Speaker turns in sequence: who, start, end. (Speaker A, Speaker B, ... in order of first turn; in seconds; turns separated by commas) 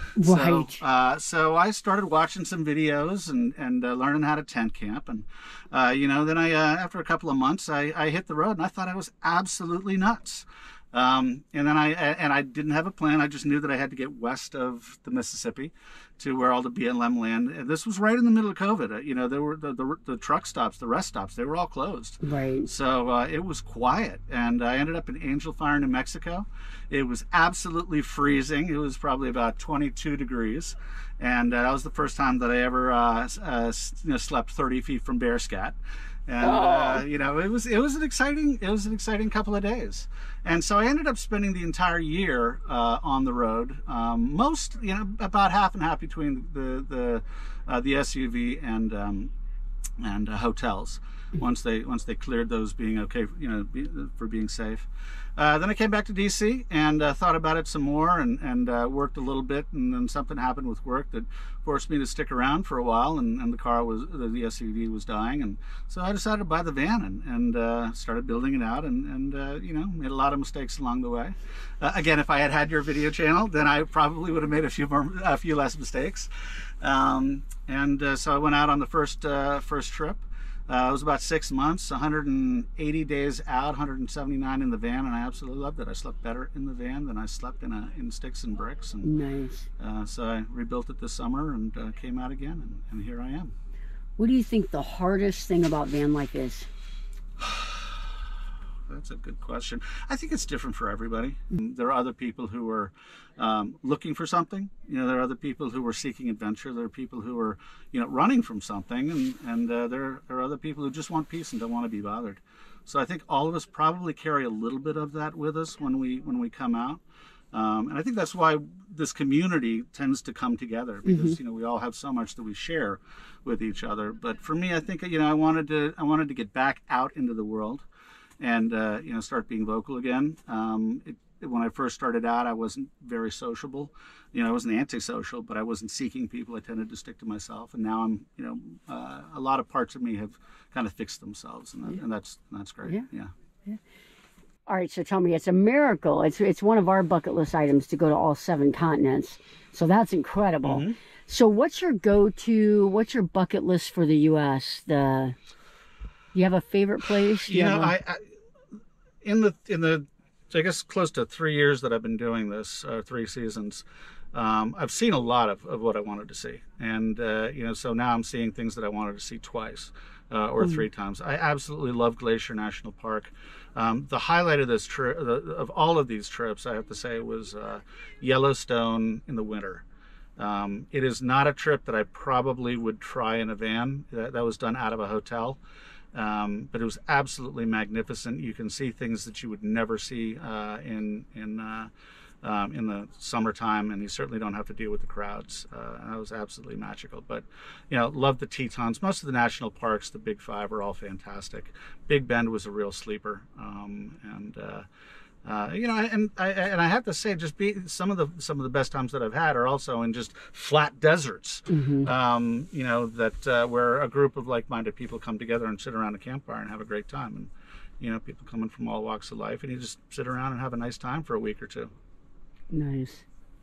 Speaker A: 0.2-0.8, Speaker B: 0.2-49.3, Speaker A: 22.2-22.7, Speaker A: 36.4-37.0, Speaker B: 50.0-54.9, Speaker B: 55.4-76.3, Speaker B: 76.8-89.1, Speaker A: 89.0-89.7, Speaker B: 89.8-93.5, Speaker A: 94.2-96.7, Speaker B: 97.4-97.8, Speaker B: 98.9-117.0, Speaker B: 117.5-127.8, Speaker A: 121.1-121.4, Speaker B: 128.4-143.3, Speaker A: 144.7-155.4, Speaker B: 150.6-150.9, Speaker A: 156.3-157.9, Speaker B: 157.5-158.2, Speaker B: 159.2-179.8, Speaker B: 180.4-185.6, Speaker B: 186.1-191.9, Speaker B: 192.4-204.8, Speaker B: 205.4-221.9, Speaker A: 211.7-212.1, Speaker A: 222.7-223.2